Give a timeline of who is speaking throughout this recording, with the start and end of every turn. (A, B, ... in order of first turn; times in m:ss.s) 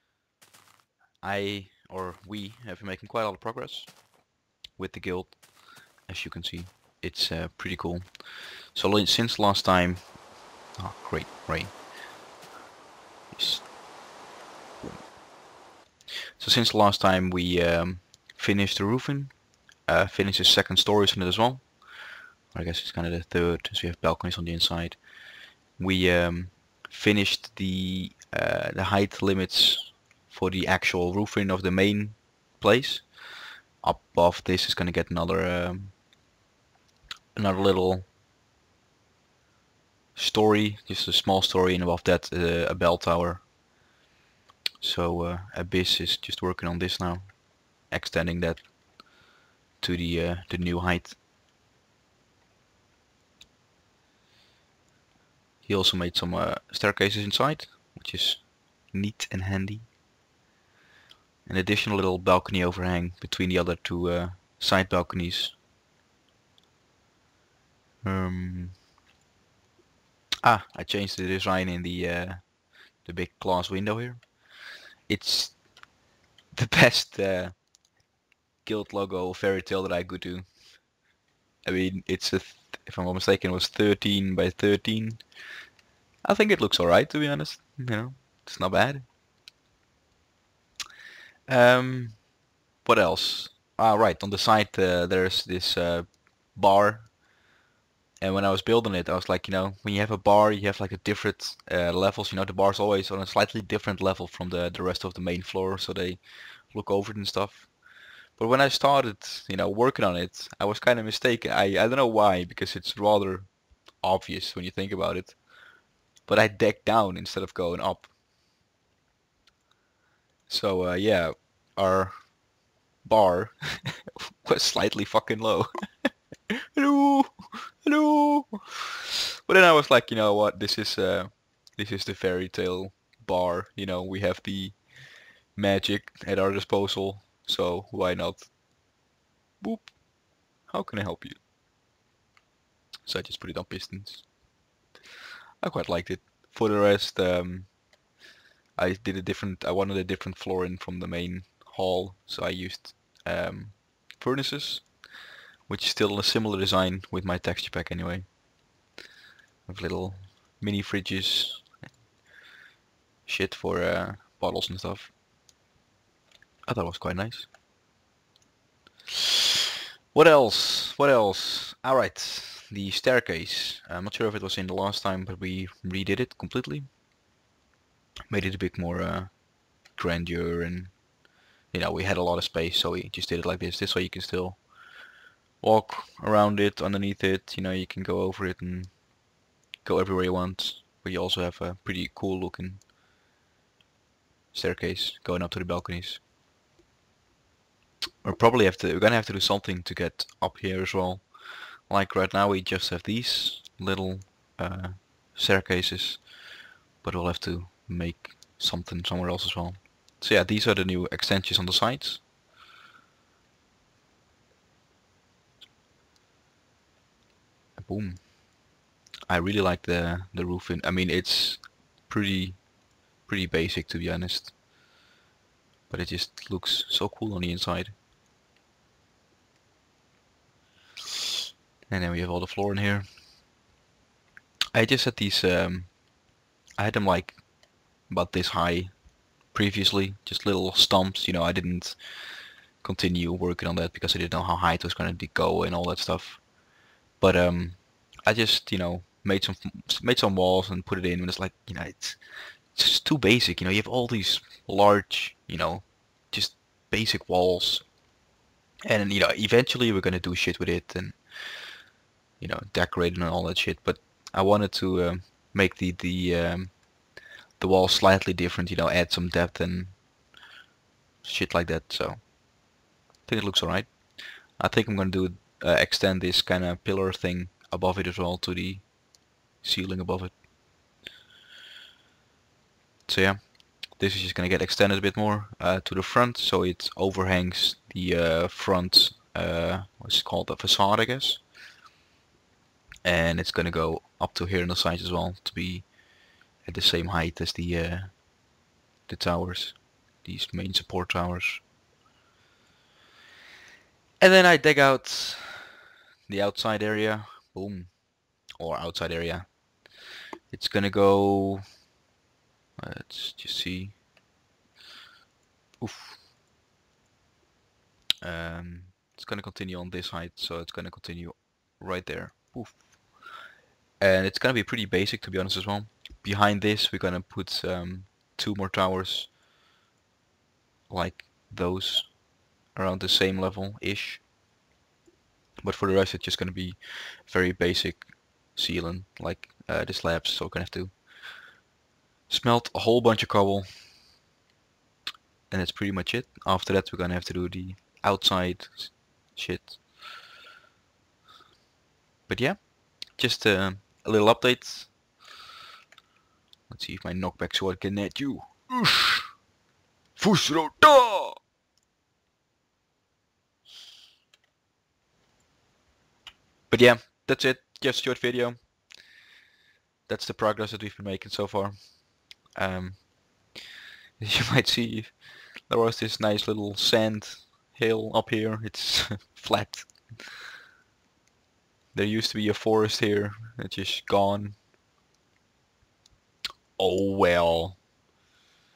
0:01.2-0:04.0 A
0:04.8-0:10.2 A
0:10.7-0:11.9 A
0:13.3-0:13.7 A
0:14.8-0:15.1 A
0:16.4-0:25.1 A
0:25.7-0:36.0 A
0:37.3-0:38.1 A
0:40.2-0:43.5 A
0:44.8-0:48.7 A
0:49.8-0:51.2 A
0:55.6-0:59.9 A
1:01.4-1:05.6 A
1:08.0-1:08.8 A
1:10.4-1:15.7 A
1:16.5-1:17.7 A
1:18.6-1:20.6 A
1:21.6-1:25.3 A
1:26.2-1:29.1 A
1:31.5-1:32.3 A
1:32.8-1:37.2 A
1:38.2-1:47.8 A
1:48.3-1:55.4 A
1:56.2-1:58.1 A
2:00.5-2:02.4 A
2:03.0-2:06.1 A
2:06.8-2:08.9 A
2:09.5-2:18.5 A
2:19.6-2:21.4 A
2:23.0-2:24.3 A
2:25.6-2:27.8 A
2:28.8-2:35.0 A
2:35.7-2:38.3 A
2:39.7-2:41.8 A
2:43.2-2:45.1 A
2:46.6-2:47.5 A
2:50.1-2:56.9 A
2:58.3-3:01.0 A
3:01.7-3:04.7 A
3:05.6-3:09.1 A
3:09.8-3:12.8 A
3:14.5-3:16.2 A
3:18.2-3:26.3 A
3:27.0-3:32.2 A
3:37.8-3:38.4 A
3:39.3-3:42.7 A
3:43.2-3:44.5 A
3:45.9-3:48.0 A
3:51.9-3:53.1 A
3:54.7-3:56.0 A
3:56.8-4:06.5 A
4:07.2-4:17.9 A
4:18.8-4:21.8 A
4:22.4-4:27.0 A
4:27.6-4:30.0 A
4:31.2-4:32.4 A
4:33.2-4:39.0 A
4:39.6-4:40.4 A
4:43.1-4:51.5 A
4:53.0-4:55.9 A
4:56.6-4:58.3 A
4:59.1-5:01.6 A
5:04.2-5:05.7 A
5:06.3-5:09.6 A
5:10.5-5:11.6 A
5:12.8-5:14.0 A
5:15.8-5:16.2 A
5:18.2-5:23.3 A
5:24.0-5:29.3 A
5:30.9-5:34.2 A
5:35.6-5:41.4 A
5:42.3-5:43.8 A
5:45.5-5:49.8 A
5:52.3-5:55.0 A
5:56.7-5:59.4 A
6:00.2-6:01.4 A
6:06.7-6:08.8 A
6:10.1-6:13.6 A
6:14.2-6:20.3 A
6:21.9-6:24.6 A
6:26.8-6:27.8 A